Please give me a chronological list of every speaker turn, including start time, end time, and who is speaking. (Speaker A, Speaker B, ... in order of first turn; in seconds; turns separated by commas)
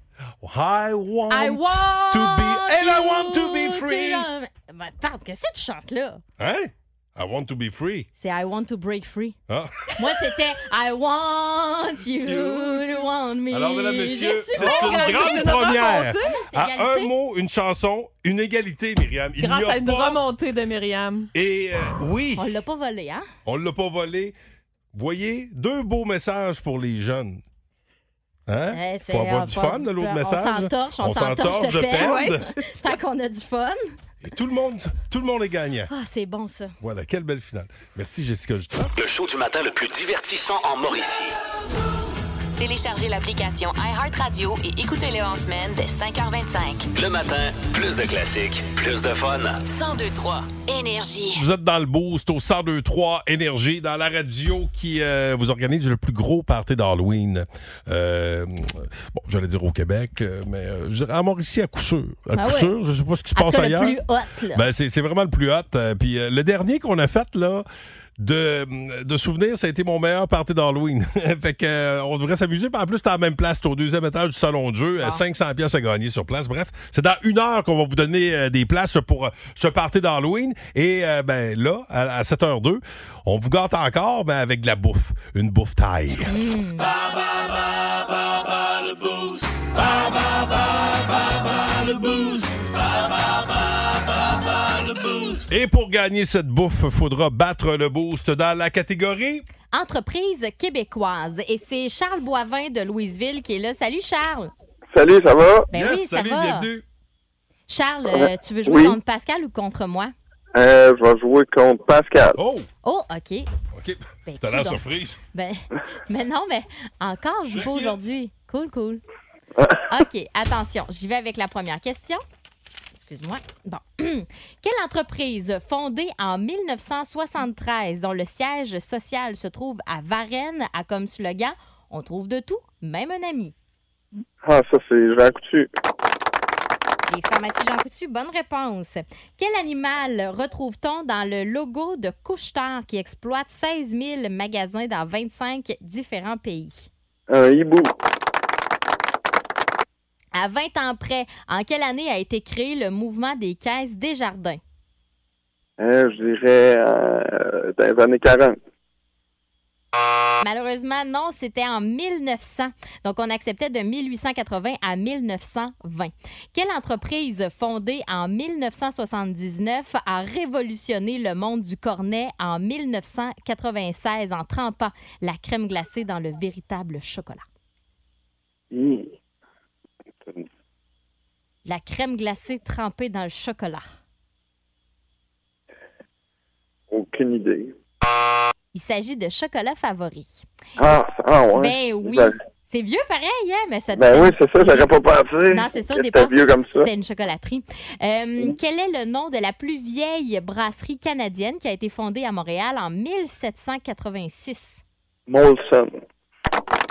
Speaker A: 0.4-4.3, Speaker B: 1.3-6.2, Speaker A: 6.4-8.1, Speaker B: 8.2-9.4, Speaker A: 9.5-10.4, Speaker B: 9.9-15.6, Speaker A: 12.2-20.2, Speaker C: 14.1-16.4, Speaker B: 16.5-17.1, Speaker C: 19.4-21.3, Speaker A: 21.3-22.5, Speaker B: 22.4-23.2, Speaker A: 23.4-24.4, Speaker A: 24.9-27.4, Speaker A: 28.5-32.4, Speaker B: 28.7-33.8, Speaker C: 32.0-32.9, Speaker A: 34.2-35.9, Speaker B: 35.9-36.8, Speaker A: 36.8-38.9, Speaker D: 39.0-41.4, Speaker E: 42.6-46.9, Speaker D: 46.9-49.6, Speaker E: 49.7-51.4, Speaker A: 51.3-64.0, Speaker B: 62.4-62.7, Speaker B: 63.4-64.6, Speaker A: 64.5-67.7, Speaker A: 68.2-86.4, Speaker B: 86.3-87.0, Speaker D: 89.0-89.6, Speaker D: 91.9-92.4, Speaker A: 95.5-99.5, Speaker B: 99.7-104.5, Speaker F: 104.9-105.7, Speaker B: 105.7-106.7, Speaker A: 105.7-106.8, Speaker B: 107.7-110.1, Speaker F: 108.1-109.0, Speaker F: 110.5-112.4, Speaker A: 112.4-112.7, Speaker B: 112.8-113.5, Speaker A: 113.7-115.2, Speaker B: 114.3-114.8, Speaker B: 115.3-119.0, Speaker A: 117.6-117.9, Speaker B: 119.9-122.2, Speaker B: 122.9-133.5, Speaker F: 134.4-135.7, Speaker B: 137.1-146.9, Speaker F: 147.3-147.9, Speaker B: 150.3-154.6, Speaker F: 155.8-158.6, Speaker B: 160.4-177.4, Speaker F: 178.7-179.1, Speaker B: 181.7-183.8, Speaker F: 186.9-187.7, Speaker B: 188.7-190.4, Speaker F: 190.8-192.3, Speaker B: 191.6-194.9, Speaker F: 193.9-196.9, Speaker B: 195.5-204.8, Speaker F: 205.3-205.9